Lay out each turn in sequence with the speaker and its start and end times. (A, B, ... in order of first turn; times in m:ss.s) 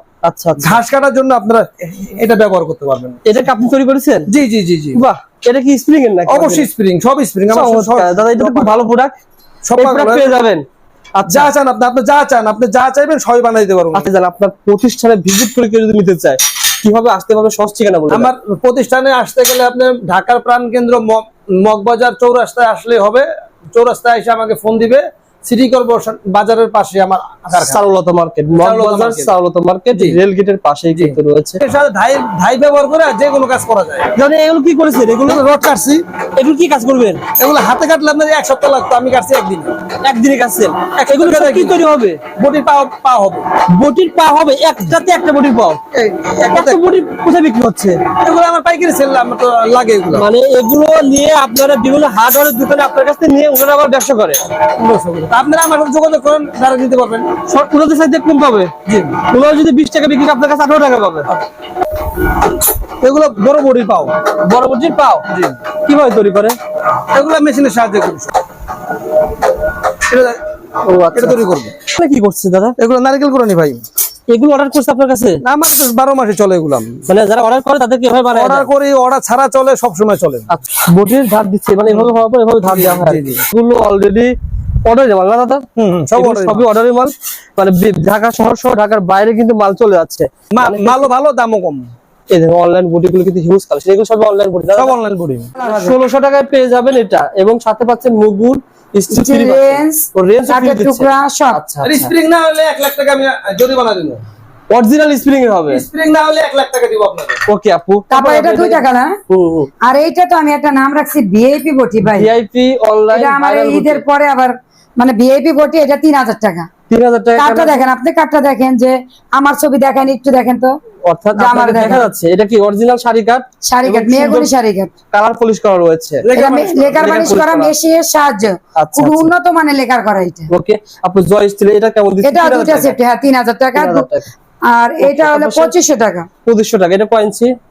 0:00.2-0:00.8 A
0:00.6-0:03.2 B
0:03.2-0:04.3 A
0:04.3-0:05.0 B
0:05.0-0:06.7 A
0:06.3-0:08.7 B
0:07.5-0:09.1 A
0:09.6-0:10.4 B
0:09.8-0:10.6 A
0:11.2-0:11.5 A
0:11.3-0:14.1 B
0:13.9-0:18.3 A
0:18.1-0:27.8 B
0:27.6-0:31.6 A
0:28.6-0:29.3 B
0:29.9-0:30.2 B
0:30.9-0:34.2 B
0:34.2-0:35.4 A
0:35.2-0:36.0 B
0:36.4-0:37.2 A
0:37.4-0:39.7 B
0:40.0-0:42.2 A
0:41.0-0:41.8 B
0:42.4-0:43.5 B
0:43.7-0:45.8 A
0:45.9-0:46.8 B
0:46.5-0:48.0 A
0:48.2-0:50.3 B
0:50.2-0:54.4 A
0:54.6-0:57.4 B
0:57.5-1:01.3 A
0:58.9-0:59.2 B
1:03.0-1:04.2 B
1:04.4-1:05.2 A
1:05.3-1:05.6 B
1:05.8-1:06.6 A
1:07.1-1:08.4 B
1:10.1-1:10.4 B
1:10.8-1:12.8 A
1:11.1-1:11.7 B
1:12.8-1:13.9 B
1:14.3-1:15.4 A
1:15.4-1:17.1 B
1:17.1-1:18.7 A
1:18.3-1:20.5 B
1:20.5-1:24.3 A
1:21.9-1:22.1 B
1:22.6-1:23.4 B
1:24.9-1:31.0 A
1:25.8-1:26.7 B
1:30.5-1:31.9 B
1:32.3-1:34.9 A
1:34.8-1:35.6 B
1:35.6-1:42.1 A
1:35.6-1:36.0 C
1:39.1-1:41.6 C
1:41.8-1:44.2 B
1:44.7-1:45.8 A
1:45.7-1:47.4 B
1:47.5-1:49.7 A
1:48.1-1:49.1 C
1:49.8-1:52.3 C
1:52.0-1:54.0 A
1:53.1-1:56.7 C
1:56.9-1:57.9 A
1:57.4-2:00.7 C
2:01.1-2:04.5 A
2:01.4-2:02.1 C
2:03.6-2:04.9 C
2:05.1-2:07.7 A
2:06.2-2:07.6 B
2:06.3-2:10.5 C
2:08.8-2:09.3 A
2:10.5-2:13.0 A
2:12.2-2:14.1 C
2:13.7-2:14.3 A
2:14.7-2:16.3 C
2:15.0-2:15.7 A
2:16.4-2:17.5 A